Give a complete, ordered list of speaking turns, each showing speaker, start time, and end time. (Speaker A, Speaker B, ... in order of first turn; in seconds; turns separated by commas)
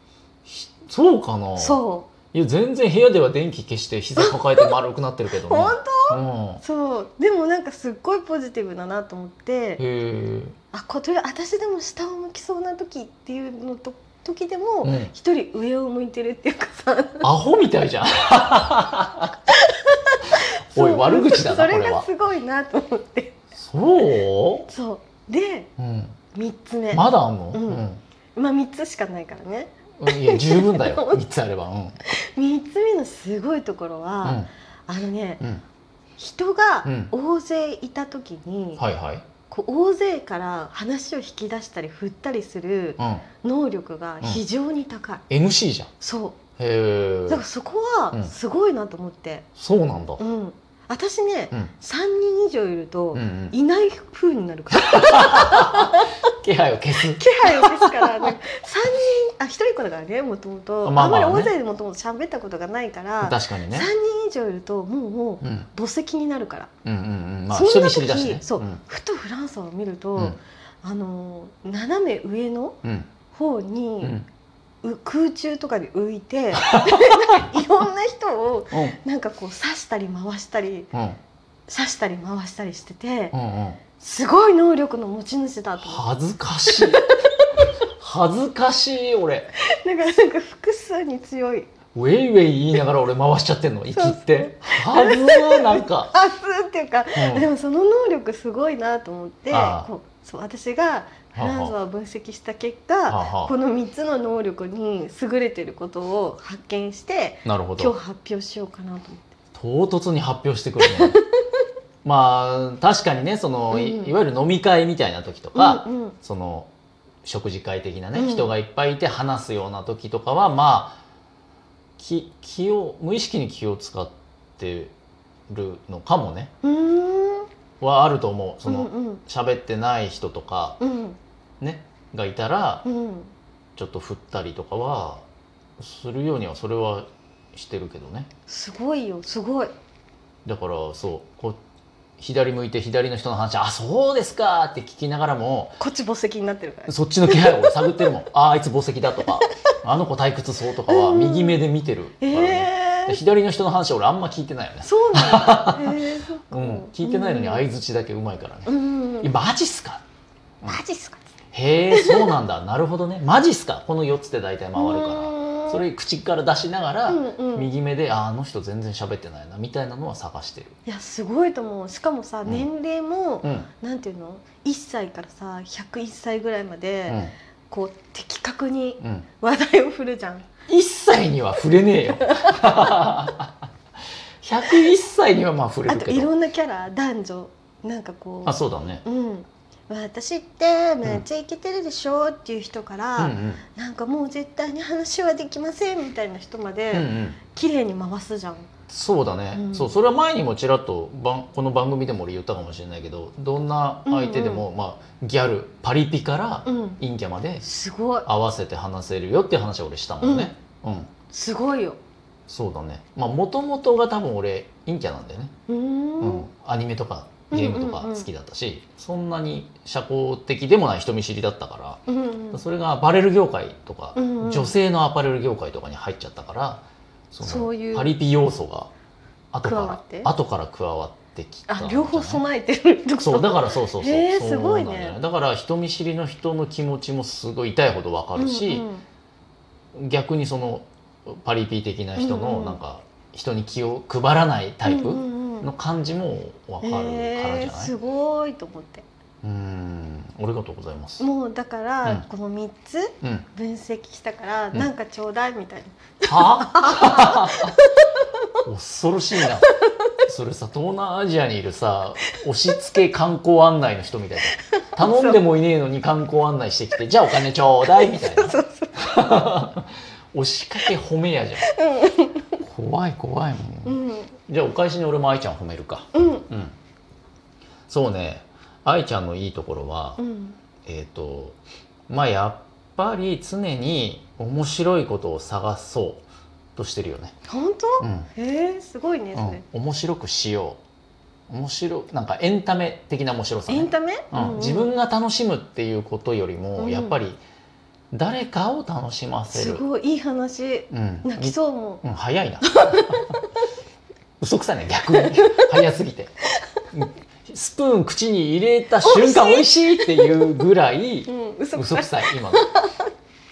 Speaker A: 0.5-6.6, Speaker B: 1.6-2.1, Speaker B: 4.2-4.7, Speaker B: 5.3-9.8, Speaker A: 9.8-10.6, Speaker B: 10.7-17.3, Speaker A: 14.8-15.1, Speaker A: 17.2-19.3, Speaker B: 19.5-23.4, Speaker A: 20.7-22.1, Speaker A: 23.6-24.7, Speaker B: 24.7-25.7, Speaker A: 25.8-26.2, Speaker B: 26.3-31.2, Speaker A: 26.9-28.0, Speaker A: 30.0-32.0, Speaker B: 32.2-35.4, Speaker A: 34.2-34.5, Speaker B: 36.2-38.8, Speaker A: 36.8-37.1, Speaker A: 38.8-39.2, Speaker B: 39.5-45.2, Speaker A: 43.0-43.2, Speaker A: 45.3-45.9, Speaker B: 46.0-46.4, Speaker A: 46.6-47.4, Speaker B: 47.3-49.5, Speaker A: 49.5-50.2, Speaker B: 50.2-56.1, Speaker A: 53.1-53.5, Speaker A: 54.8-58.3, Speaker B: 57.1-66.7, Speaker A: 60.8-61.5, Speaker A: 63.2-63.9, Speaker A: 65.4-65.7, Speaker A: 66.8-68.8, Speaker B: 67.5-72.8, Speaker A: 72.8-73.1, Speaker B: 73.3-74.2, Speaker A: 74.0-74.3, Speaker B: 74.8-80.9, Speaker A: 76.6-77.4, Speaker A: 78.7-79.0, Speaker A: 80.9-81.2, Speaker B: 81.7-83.3, Speaker A: 83.3-83.8, Speaker B: 84.0-86.0, Speaker A: 85.8-87.1, Speaker B: 86.7-87.4, Speaker A: 88.0-89.5, Speaker B: 89.7-91.7, Speaker A: 91.9-96.1, Speaker B: 93.9-109.3, Speaker A: 97.1-97.5, Speaker A: 99.5-99.9, Speaker A: 101.3-101.7, Speaker A: 103.1-103.5, Speaker A: 107.4-107.9, Speaker A: 109.5-111.2, Speaker B: 110.8-111.2, Speaker A: 112.0-116.7, Speaker B: 113.7-114.2, Speaker B: 115.5-116.2, Speaker A: 117.2-121.0, Speaker B: 118.1-118.5, Speaker A: 122.0-124.9, Speaker A: 125.5-126.5, Speaker B: 126.6-127.5, Speaker A: 127.8-130.8, Speaker B: 128.7-129.2, Speaker B: 130.8-131.2, Speaker A: 131.6-132.8, Speaker B: 132.8-133.3, Speaker A: 133.8-135.2, Speaker A: 135.8-138.3, Speaker B: 138.5-139.7, Speaker A: 140.4-141.6, Speaker A: 142.2-145.8, Speaker B: 145.8-147.8, Speaker A: 146.9-160.0, Speaker B: 150.9-151.6, Speaker B: 152.2-153.2, Speaker B: 154.8-157.6, Speaker B: 158.7-159.3, Speaker B: 160.6-161.2, Speaker A: 161.5-170.8, Speaker B: 161.9-162.3, Speaker B: 164.7-165.8, Speaker B: 167.1-167.7, Speaker B: 170.8-180.5, Speaker A: 173.4-173.7, Speaker A: 177.1-177.3, Speaker A: 179.0-179.3, Speaker A: 180.7-183.5, Speaker B: 182.3-183.0, Speaker A: 184.4-186.3, Speaker B: 185.9-198.7, Speaker A: 188.4-189.0, Speaker A: 193.2-193.6, Speaker A: 196.9-197.4, Speaker A: 198.9-207.7, Speaker B: 199.5-199.9, Speaker B: 204.1-204.6, Speaker B: 206.7-207.0, Speaker B: 207.6-208.3, Speaker A: 208.2-211.1, Speaker B: 210.2-210.5, Speaker B: 211.3-212.0, Speaker A: 212.5-215.5, Speaker B: 215.7-216.5, Speaker A: 216.2-228.9, Speaker B: 217.5-218.3, Speaker B: 222.1-222.6, Speaker B: 224.1-224.7, Speaker B: 227.4-228.1, Speaker A: 229.5-232.4, Speaker B: 229.6-230.3, Speaker B: 231.7-235.2, Speaker A: 233.2-238.8, Speaker B: 238.3-239.0, Speaker A: 239.9-247.9, Speaker B: 242.2-242.8, Speaker B: 244.8-245.7, Speaker B: 246.8-249.1, Speaker A: 249.4-251.2, Speaker B: 251.2-257.9, Speaker A: 253.2-253.5, Speaker A: 256.2-257.7, Speaker A: 258.6-259.7, Speaker B: 259.4-259.8, Speaker A: 260.2-271.7, Speaker B: 264.9-265.4, Speaker B: 267.8-268.9, Speaker B: 271.6-272.6, Speaker A: 272.6-276.7, Speaker B: 273.9-274.3, Speaker B: 276.1-276.5, Speaker A: 277.9-280.2, Speaker B: 280.2-280.6, Speaker A: 280.8-281.6, Speaker A: 282.1-287.4, Speaker B: 287.5-289.6, Speaker A: 288.0-288.3, Speaker A: 289.3-290.8, Speaker A: 291.5-297.4, Speaker B: 293.7-294.9, Speaker B: 296.8-297.2, Speaker A: 298.1-299.8, Speaker B: 299.5-302.0, Speaker A: 300.9-303.2, Speaker B: 302.6-303.4, Speaker A: 304.4-306.3, Speaker B: 305.1-305.8, Speaker A: 306.9-312.7, Speaker B: 309.0-310.5, Speaker B: 311.2-313.1